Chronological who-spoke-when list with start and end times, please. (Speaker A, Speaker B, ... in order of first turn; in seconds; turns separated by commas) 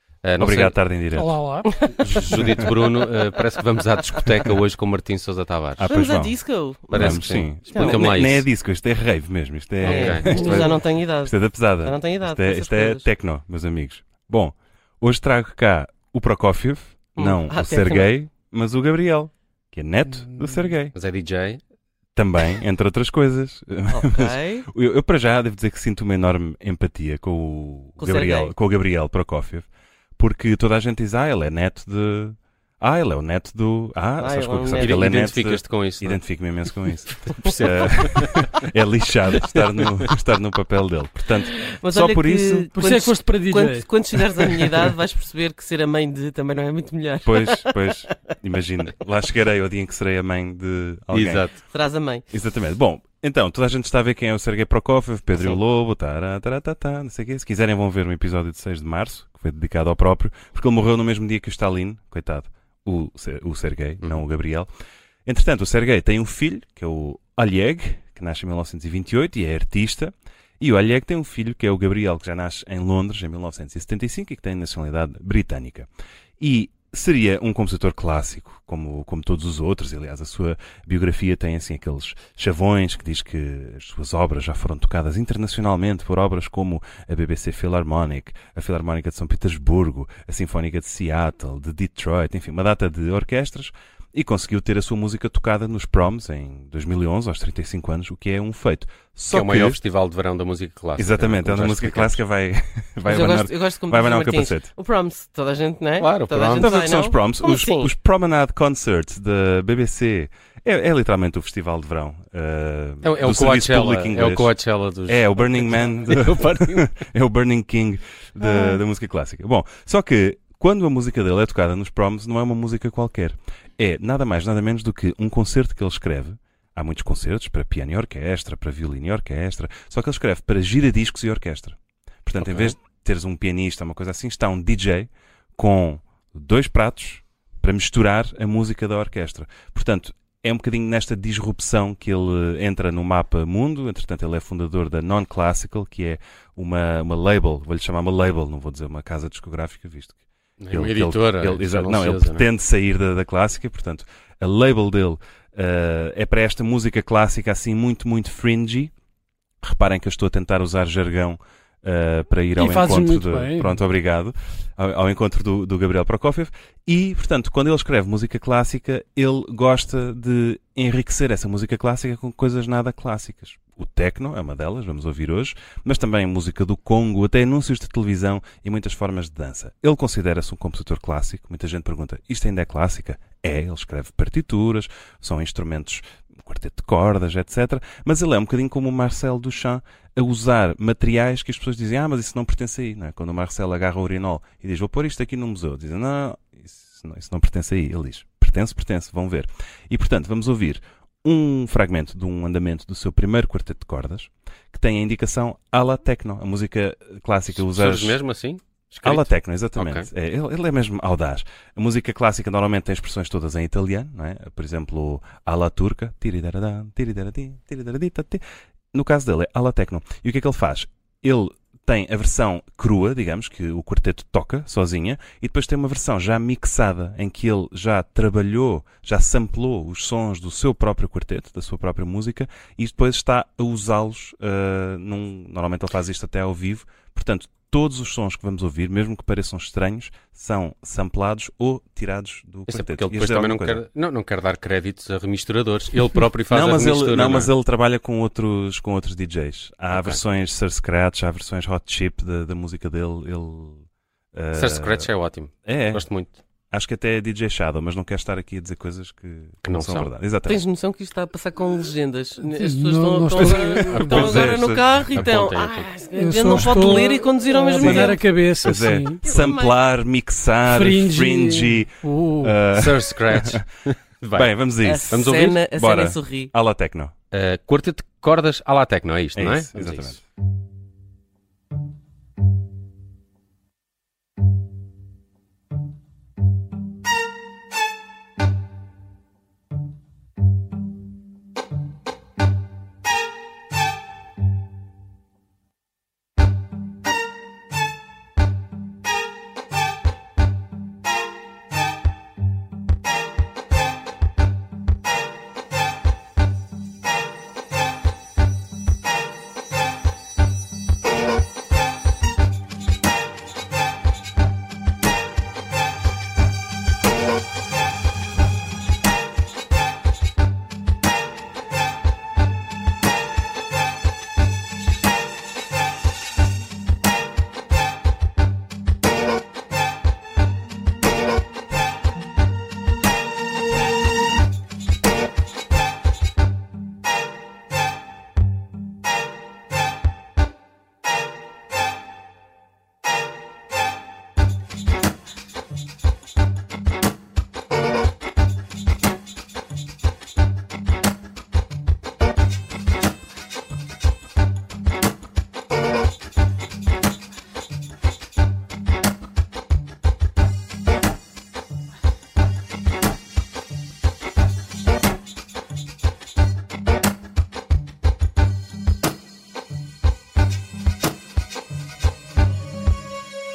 Speaker A: 0.2-0.8, Speaker B: 0.4-1.4, Speaker C: 1.2-1.9, Speaker D: 1.7-2.8, Speaker A: 2.0-5.9, Speaker B: 5.8-20.9, Speaker D: 5.9-8.3, Speaker A: 6.9-8.5, Speaker A: 9.8-10.7, Speaker D: 9.8-13.1, Speaker D: 17.2-18.1, Speaker A: 20.9-21.6, Speaker B: 22.1-29.7, Speaker D: 23.9-24.7, Speaker D: 28.0-28.5, Speaker B: 30.2-42.7, Speaker D: 34.2-35.2, Speaker A: 34.8-36.2, Speaker A: 37.3-38.6, Speaker A: 39.6-39.8, Speaker D: 41.5-48.1, Speaker C: 42.7-44.9, Speaker B: 47.2-51.5, Speaker A: 51.1-51.6, Speaker D: 51.7-52.2, Speaker B: 52.3-64.7, Speaker B: 65.3-75.9, Speaker B: 76.4-99.8, Speaker A: 99.3-102.2, Speaker B: 101.0-104.7, Speaker D: 103.1-107.9, Speaker A: 106.0-106.7, Speaker B: 106.6-114.5, Speaker A: 113.0-116.9, Speaker B: 115.1-150.2, Speaker A: 132.4-132.7, Speaker A: 150.6-152.4, Speaker B: 150.7-158.9, Speaker B: 159.6-208.2, Speaker C: 162.6-163.8, Speaker A: 207.5-210.1, Speaker B: 209.0-218.4, Speaker B: 218.9-243.8, Speaker A: 242.7-247.5, Speaker B: 246.5-255.1, Speaker A: 249.9-250.2, Speaker A: 254.6-256.4, Speaker B: 255.7-256.1, Speaker B: 256.7-260.6, Speaker A: 259.6-260.1, Speaker D: 260.5-268.3, Speaker C: 262.4-264.6, Speaker B: 263.4-265.3, Speaker A: 265.1-265.9, Speaker C: 266.1-269.2, Speaker B: 267.8-273.6, Speaker D: 269.2-269.8, Speaker C: 270.7-272.6, Speaker A: 272.7-274.5, Speaker B: 274.3-277.1, Speaker D: 274.8-276.5, Speaker A: 275.1-275.6, Speaker A: 277.3-280.2, Speaker B: 279.4-280.2